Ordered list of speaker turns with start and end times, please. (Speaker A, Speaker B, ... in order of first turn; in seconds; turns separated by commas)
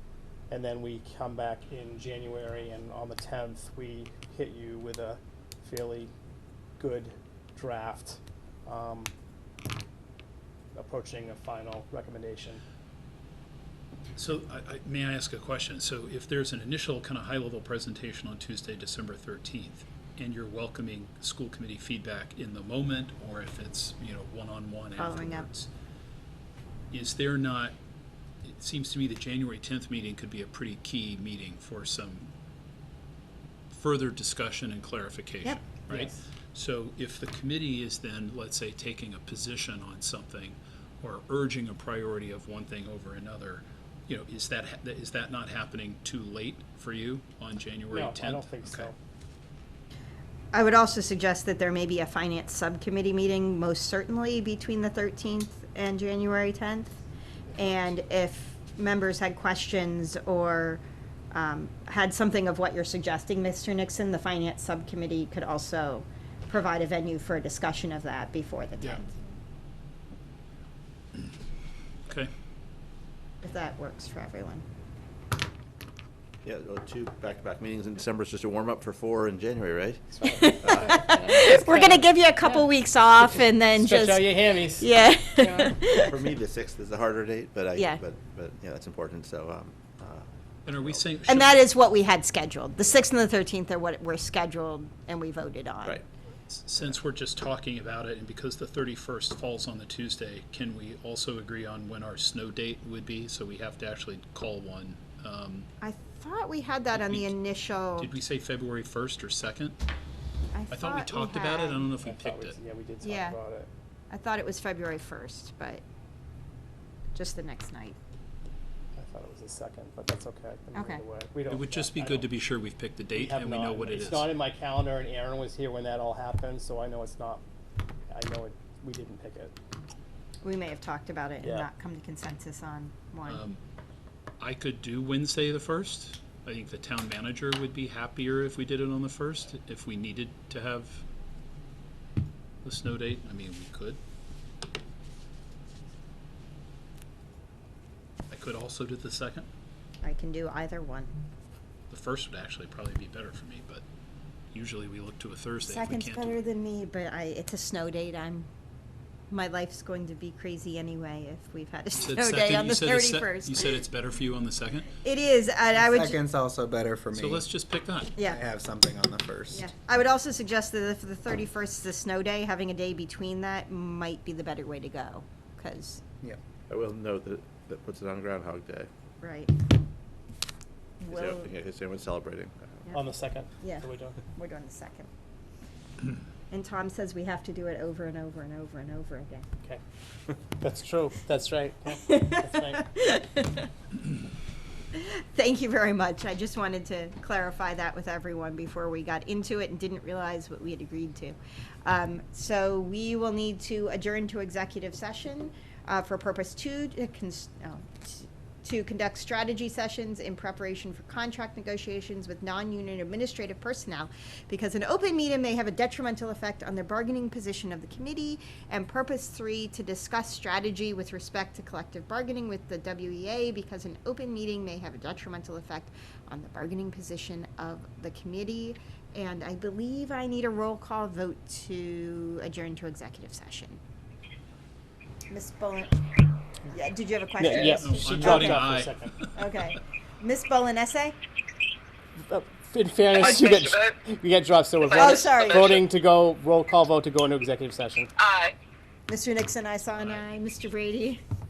Speaker A: 0.5-6.1, Speaker A: 6.8-9.1, Speaker A: 10.8-12.6, Speaker B: 14.2-25.7, Speaker C: 24.9-25.5, Speaker B: 26.9-27.7, Speaker B: 28.4-32.3, Speaker B: 33.7-48.9, Speaker A: 35.9-36.2, Speaker A: 47.9-49.0, Speaker C: 50.5-57.0, Speaker C: 57.5-69.1, Speaker C: 73.4-74.6, Speaker D: 76.4-81.3, Speaker A: 80.1-82.7, Speaker C: 80.3-86.2, Speaker A: 83.8-85.8, Speaker D: 86.1-91.1, Speaker B: 90.7-91.6, Speaker C: 91.2-96.0, Speaker B: 96.5-105.7, Speaker C: 105.8-108.1, Speaker B: 106.9-107.3, Speaker B: 108.0-109.8, Speaker C: 110.5-111.9, Speaker B: 110.7-112.6, Speaker A: 112.0-113.7, Speaker C: 113.0-113.4, Speaker C: 114.1-115.8, Speaker C: 117.2-118.0, Speaker A: 119.0-122.3, Speaker C: 120.7-121.0, Speaker B: 121.5-124.3, Speaker A: 123.1-127.4, Speaker A: 128.1-129.6, Speaker C: 130.4-133.4, Speaker A: 131.4-131.7, Speaker B: 133.2-133.6, Speaker B: 134.4-141.0, Speaker B: 142.6-144.0, Speaker B: 148.3-149.5, Speaker C: 150.0-151.1, Speaker B: 151.9-153.8, Speaker B: 154.5-156.4, Speaker C: 155.6-158.5, Speaker C: 159.3-163.8, Speaker B: 162.0-164.9, Speaker C: 165.0-166.2, Speaker E: 165.8-167.5, Speaker B: 167.1-168.1, Speaker C: 168.2-168.4, Speaker E: 168.2-169.7, Speaker C: 169.5-176.0, Speaker D: 176.7-178.9, Speaker C: 179.2-179.5, Speaker C: 181.0-181.5, Speaker D: 181.1-182.8, Speaker A: 182.9-184.2, Speaker C: 183.6-185.1, Speaker C: 186.5-189.5, Speaker A: 190.4-192.8, Speaker C: 192.1-193.7, Speaker C: 194.9-233.8, Speaker C: 235.3-238.7, Speaker A: 237.4-239.1, Speaker B: 237.5-239.5, Speaker C: 239.3-241.2, Speaker A: 242.2-248.1, Speaker C: 245.0-245.6, Speaker C: 249.1-251.2